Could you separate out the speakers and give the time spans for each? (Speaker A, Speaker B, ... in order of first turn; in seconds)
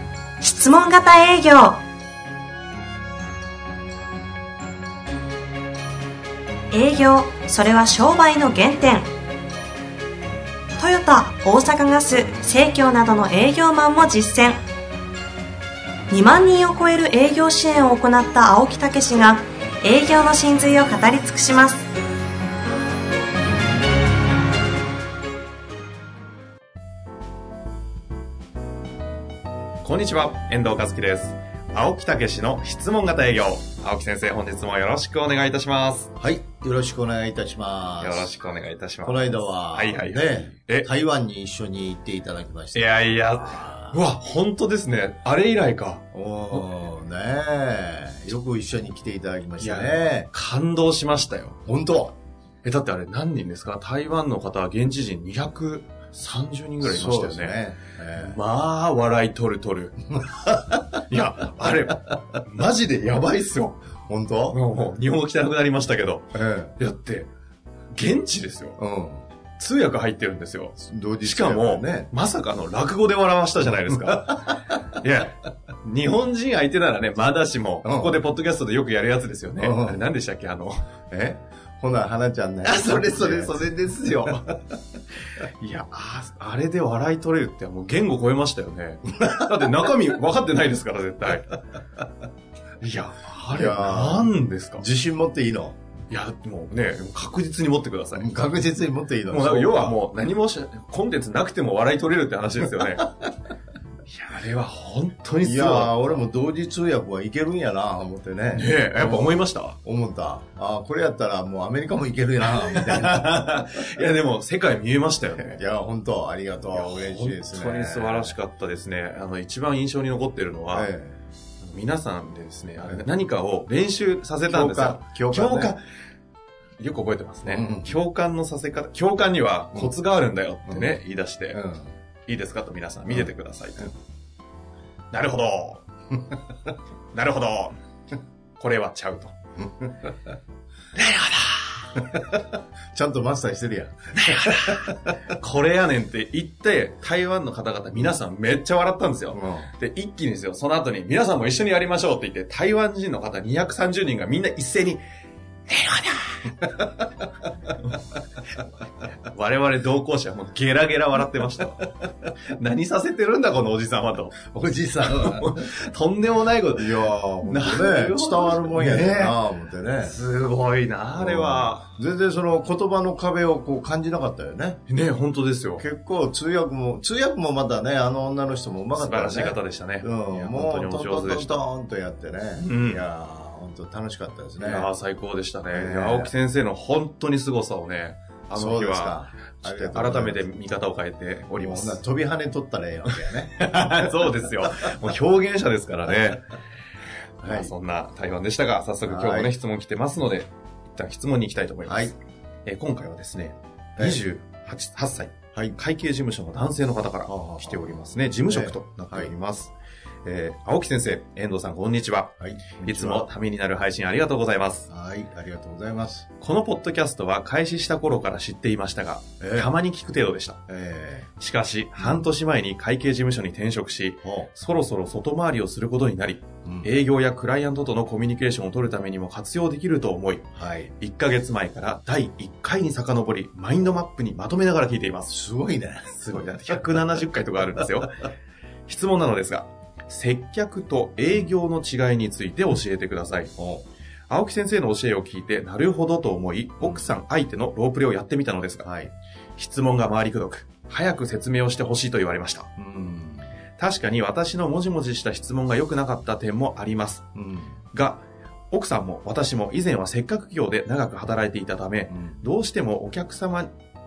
Speaker A: 0.4-1.8, 6.7-9.1, 10.8-14.6, 16.1-21.8
Speaker B: 29.8-36.1, 38.0-40.9, 42.7-46.7, 49.6-51.6, 52.6-57.6, 58.1-63.8, 64.5-67.3, 67.9-68.8, 69.6-80.8, 82.6-84.5, 85.4-91.6, 92.8-94.8, 96.1-98.3, 99.3-103.1, 104.1-106.0, 108.5-109.8, 112.5-115.6, 116.7-120.9, 121.6-125.8, 126.8-131.6, 132.3-133.9, 135.1-135.8, 137.1-137.7, 138.6-139.3, 140.9-141.9, 144.2-155.0, 155.7-156.7, 159.2-161.9, 162.5-169.4, 170.0-171.9, 174.9-175.8, 178.9-181.6, 182.6-183.0, 184.6-192.0, 193.1-196.4, 197.4-202.1, 202.7-209.7, 210.2-214.9, 216.4-220.6, 221.4-230.5, 231.0-235.3, 236.1-238.3, 238.9-243.5, 244.3-248.8, 249.6-252.7, 253.8-257.2, 257.9-263.7
Speaker C: 36.2-38.3, 39.0-44.0, 46.1-50.3, 51.6-52.1, 56.8-58.4, 60.2-61.0, 64.1-64.6, 66.3-66.8, 68.8-69.2, 70.8-72.1, 77.8-78.2, 79.6-80.0, 81.1-84.6, 93.5-95.8, 98.1-100.0, 105.4-113.6, 115.4-118.4, 120.7-121.2, 124.5-125.7, 127.5-127.9, 130.7-131.9, 133.1-133.9, 142.0-145.1, 149.3-149.7, 164.4-165.5, 166.7-170.1, 171.1-174.8, 175.8-184.9, 185.7-186.3, 188.5-190.5, 191.6-194.4, 197.4-197.7, 199.0-199.5, 201.8-202.1, 207.2-209.3, 212.4-213.3, 214.9-216.3, 219.4-219.7, 220.7-221.3, 222.0-222.3, 224.2-224.5, 226.6-226.9, 230.5-230.9, 235.3-236.2, 243.6-243.8, 248.8-249.1, 252.8-253.5, 257.3-257.8, 262.1-262.4